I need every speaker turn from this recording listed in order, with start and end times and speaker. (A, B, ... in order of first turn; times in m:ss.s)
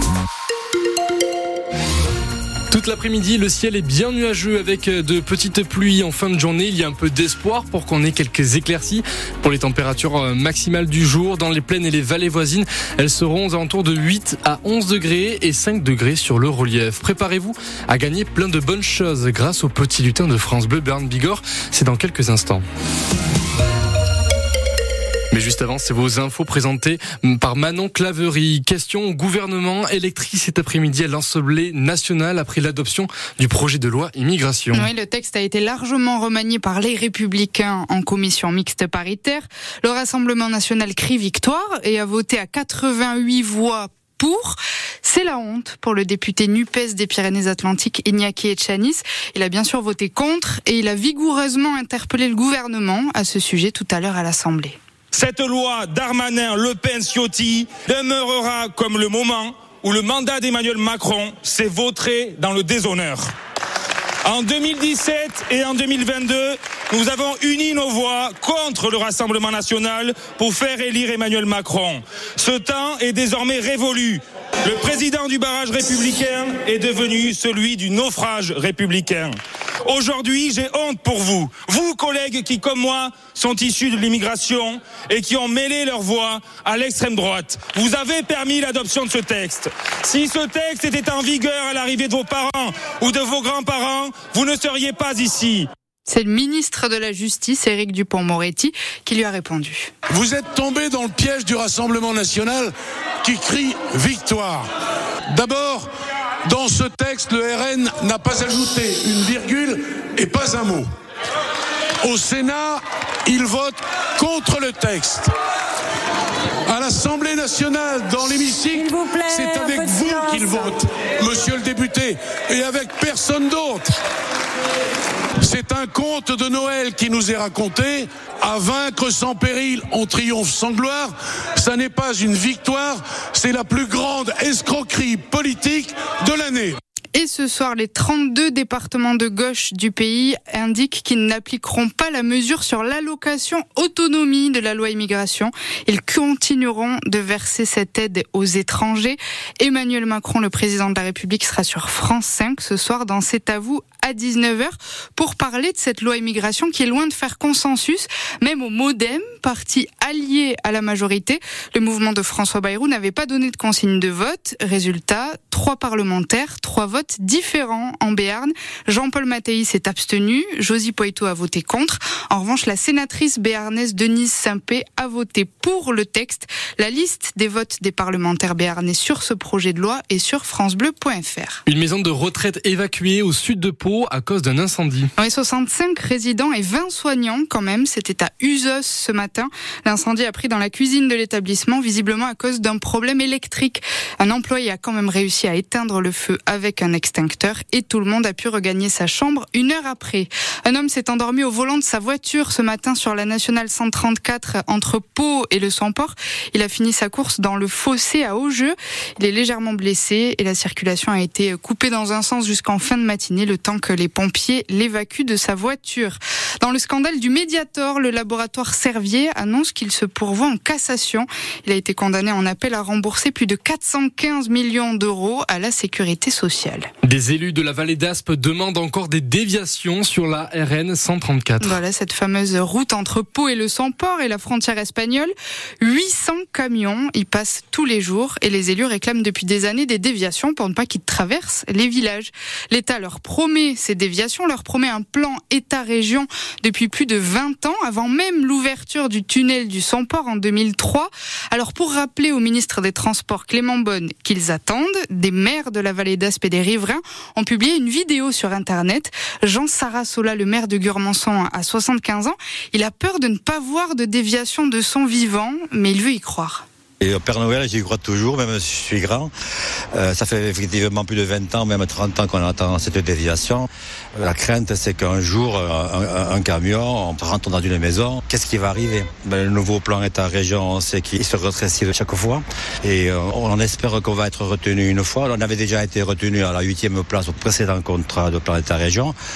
0:02.7-0:22.6 A
0:25.3-0:34.9 A
0:34.7-0:54.8 B
0:55.1-1:03.3 C
1:04.2-1:19.3 C
1:19.8-1:35.7 C
1:36.1-1:39.9 B
1:40.1-1:44.7 D
1:45.3-1:45.9 D
1:46.4-1:50.9 D
1:52.0-1:55.3 D
1:56.6-2:04.0 D
2:05.4-2:16.8 D
2:17.1-3:01.6 B
3:01.6-3:05.1 A
3:05.2-3:46.9 B
3:47.0-3:51.8 A
3:51.6-4:26.6 B
4:27.0-4:29.3 E
4:29.9-4:49.1 E